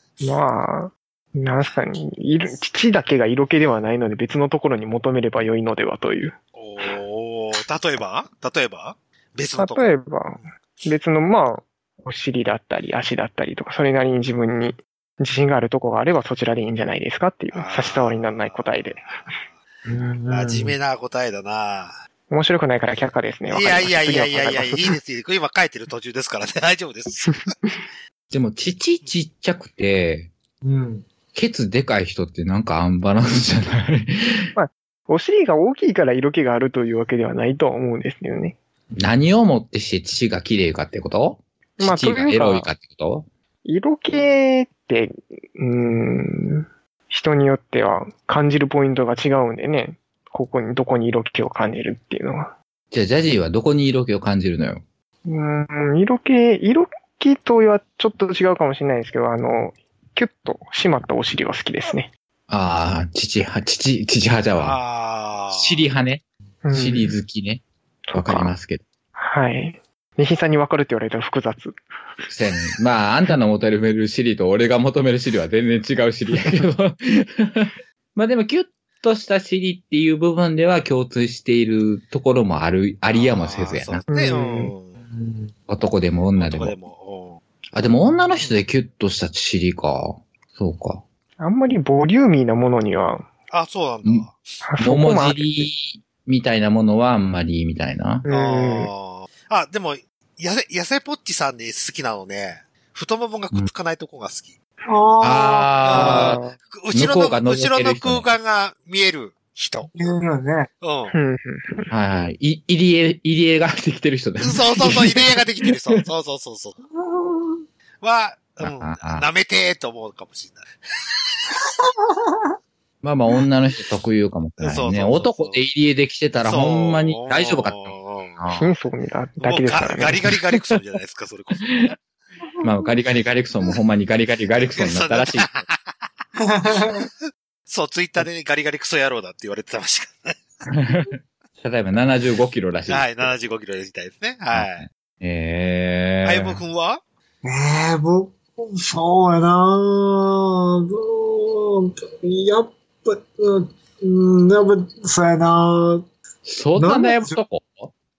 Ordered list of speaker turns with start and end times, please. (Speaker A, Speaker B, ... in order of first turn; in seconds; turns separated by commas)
Speaker A: 0.2-6.3, Speaker B: 6.5-9.9, Speaker A: 9.6-19.0, Speaker B: 17.5-19.4, Speaker C: 19.9-20.7, Speaker B: 20.3-22.0, Speaker A: 22.3-24.8, Speaker B: 23.5-27.5, Speaker D: 28.3-30.3, Speaker C: 30.6-31.1, Speaker D: 31.3-34.5, Speaker A: 34.5-38.6, Speaker D: 39.0-43.3, Speaker A: 41.8-42.7, Speaker A: 43.6-52.5, Speaker D: 52.9-54.8, Speaker A: 55.2-62.1, Speaker D: 62.5-64.8, Speaker B: 64.6-65.8, Speaker D: 65.5-67.6, Speaker A: 66.6-67.1, Speaker A: 68.1-68.5, Speaker D: 68.1-68.8, Speaker A: 69.2-71.8, Speaker D: 72.3-84.0, Speaker B: 83.1-85.0, Speaker A: 84.1-84.7, Speaker C: 85.0-85.5, Speaker D: 85.7-86.8, Speaker B: 86.4-87.4, Speaker D: 87.7-91.0, Speaker A: 91.4-93.3, Speaker B: 93.5-94.4, Speaker A: 94.6-95.7, Speaker D: 94.8-98.2, Speaker A: 98.2-98.9, Speaker B: 98.3-104.5, Speaker C: 104.9-105.7, Speaker D: 105.2-106.4, Speaker B: 105.8-109.9, Speaker A: 106.1-106.5, Speaker D: 106.9-108.3, Speaker C: 109.9-110.7, Speaker B: 110.8-111.1, Speaker A: 111.1-111.9, Speaker D: 111.9-115.4, Speaker B: 114.4-116.8, Speaker C: 116.9-117.6, Speaker B: 118.0-120.7, Speaker D: 118.6-119.3, Speaker C: 121.6-122.5, Speaker D: 123.0-128.7, Speaker B: 124.6-125.6, Speaker B: 126.4-128.3, Speaker A: 128.5-130.3, Speaker B: 129.4-131.8, Speaker D: 132.6-135.6, Speaker B: 134.7-135.9, Speaker C: 136.4-137.1, Speaker B: 137.7-140.4, Speaker D: 140.7-143.3, Speaker B: 142.9-144.8, Speaker D: 144.5-146.6, Speaker B: 146.2-147.0, Speaker C: 147.4-156.1, Speaker D: 156.4-157.9, Speaker C: 156.8-157.3